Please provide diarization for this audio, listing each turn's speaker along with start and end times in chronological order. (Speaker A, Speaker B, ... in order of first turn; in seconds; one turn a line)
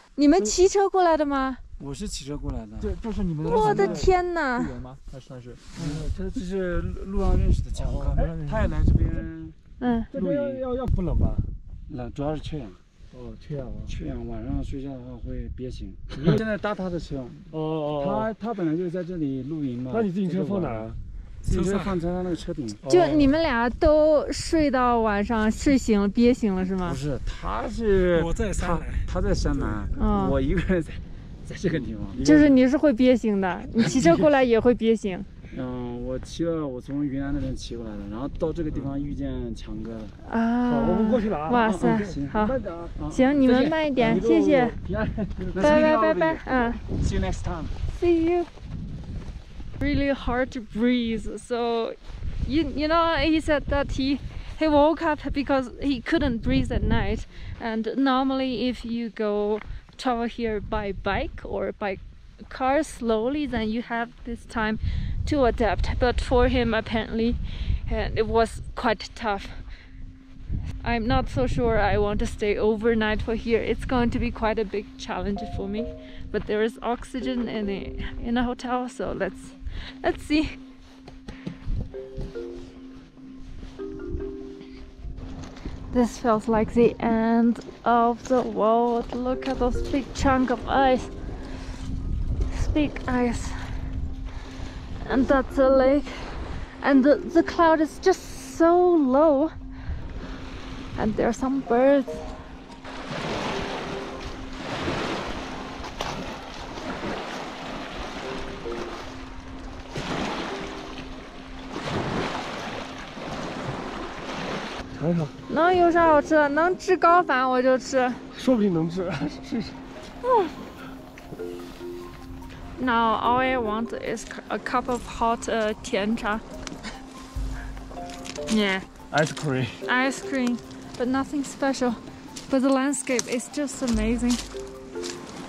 Speaker A: 0.2-1.6
Speaker B: 1.8-4.0
Speaker C: 2.8-5.7
Speaker A: 3.4-4.8
Speaker B: 5.8-9.6
Speaker C: 7.8-8.8
Speaker D: 7.9-8.2
Speaker A: 9.8-10.1
Speaker B: 10.1-10.6
Speaker D: 10.1-11.5
Speaker B: 11.9-12.8
Speaker D: 13.1-13.9
Speaker B: 13.9-17.5
Speaker D: 17.5-18.3
Speaker B: 18.0-22.8
Speaker D: 19.9-20.9
Speaker D: 21.5-21.9
Speaker D: 22.8-23.3
Speaker A: 22.9-27.0
Speaker B: 26.8-32.5
Speaker D: 28.1-29.8
Speaker A: 30.0-30.4
Speaker D: 31.7-32.5
Speaker A: 32.2-35.3
Speaker B: 35.5-40.2
Speaker A: 40.2-42.6
Speaker D: 40.7-41.8
Speaker B: 41.5-47.8
Speaker A: 43.1-44.8
Speaker A: 45.6-46.8
Speaker A: 47.9-48.5
Speaker A: 49.8-69.6
Speaker A: 70.8-80.6
Speaker A: 85.9-91.1
Speaker A: 92.5-93.8
Speaker A: 95.0-99.5
Speaker A: 101.0-102.3
Speaker D: 115.0-115.3
Speaker A: 115.5-118.2
Speaker D: 118.3-119.8
Speaker A: 120.2-120.5
Speaker A: 122.8-126.4
Speaker A: 128.5-128.9
Speaker D: 129.1-129.8
Speaker A: 129.8-134.4